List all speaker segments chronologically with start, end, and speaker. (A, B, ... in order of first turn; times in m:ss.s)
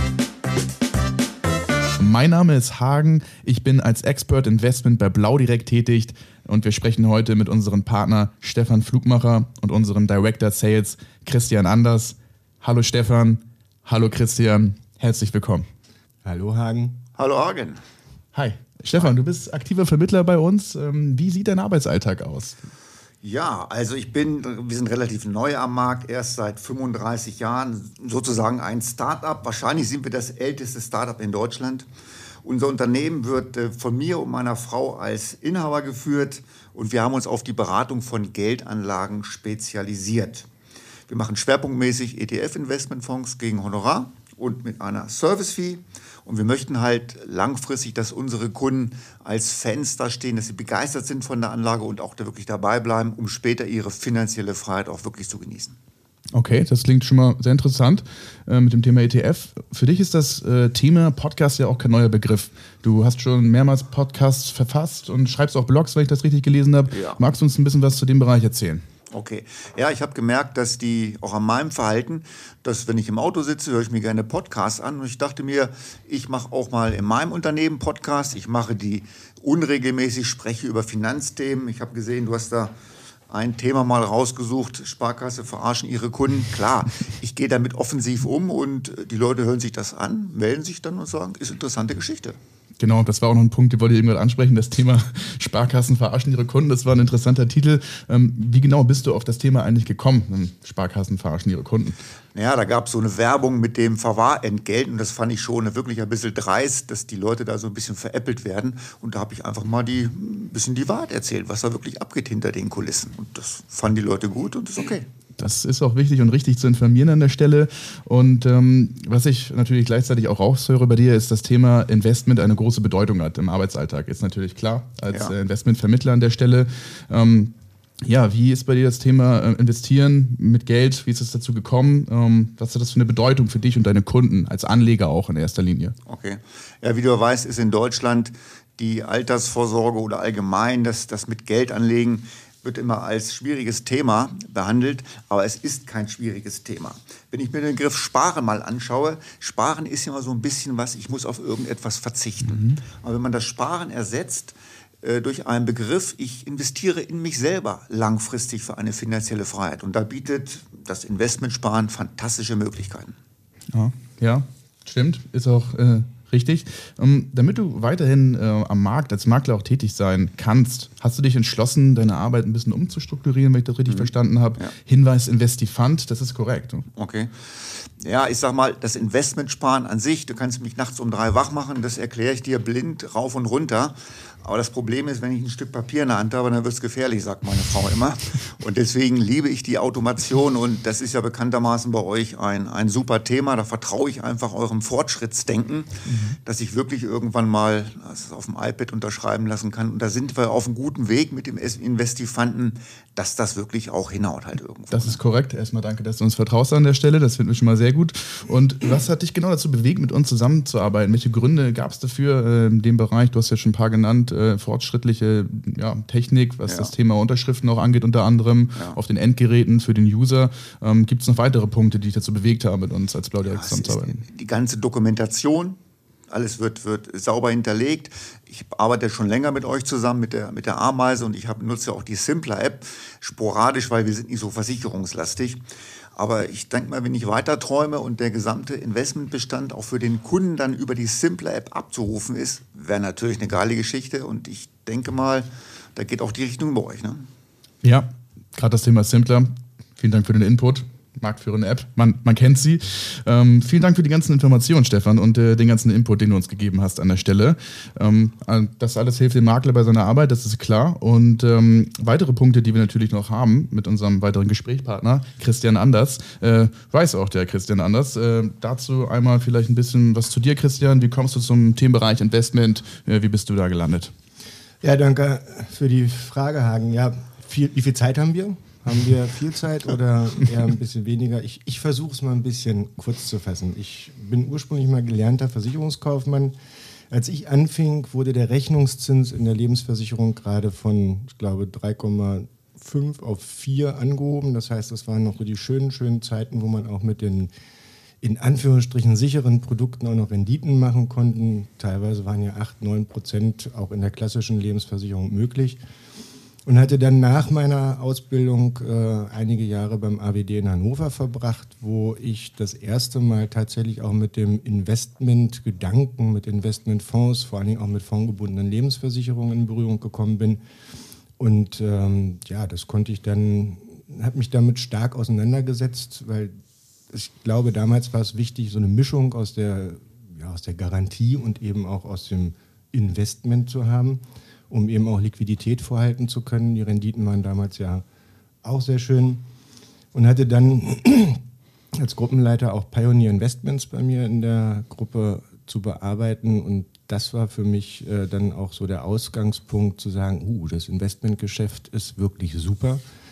0:02.0-0:15.6 A
0:16.2-0:17.0 B
0:17.2-0:17.8 C
0:18.3-0:22.6 A
0:23.2-0:31.9 C
0:32.4-0:40.5 C
0:41.1-0:55.8 C
0:56.3-1:08.8 A
1:06.9-1:07.2 C
1:09.1-1:22.7 C
1:23.3-1:32.4 C
1:32.8-1:42.0 A
1:42.3-1:55.0 C
1:55.4-2:15.9 A
2:16.0-2:43.2 C
2:32.5-2:32.8 A
2:43.7-2:56.8 A
2:53.9-2:54.7 C
2:57.0-3:25.2 C
3:16.0-3:16.3 A
3:24.9-3:44.2 A
3:36.7-3:36.9 C
3:43.4-3:45.8 C
3:46.3-3:55.6 C
3:56.1-4:07.3 C
4:07.8-4:34.1 A
4:34.8-4:46.5 B
4:47.1-4:57.5 B
4:58.2-5:05.8 B
5:06.6-5:20.6 B
5:21.4-5:26.5 B
5:27.1-5:38.0 B
5:38.6-5:39.4 B
5:40.1-5:41.4 B
5:41.9-5:53.0 B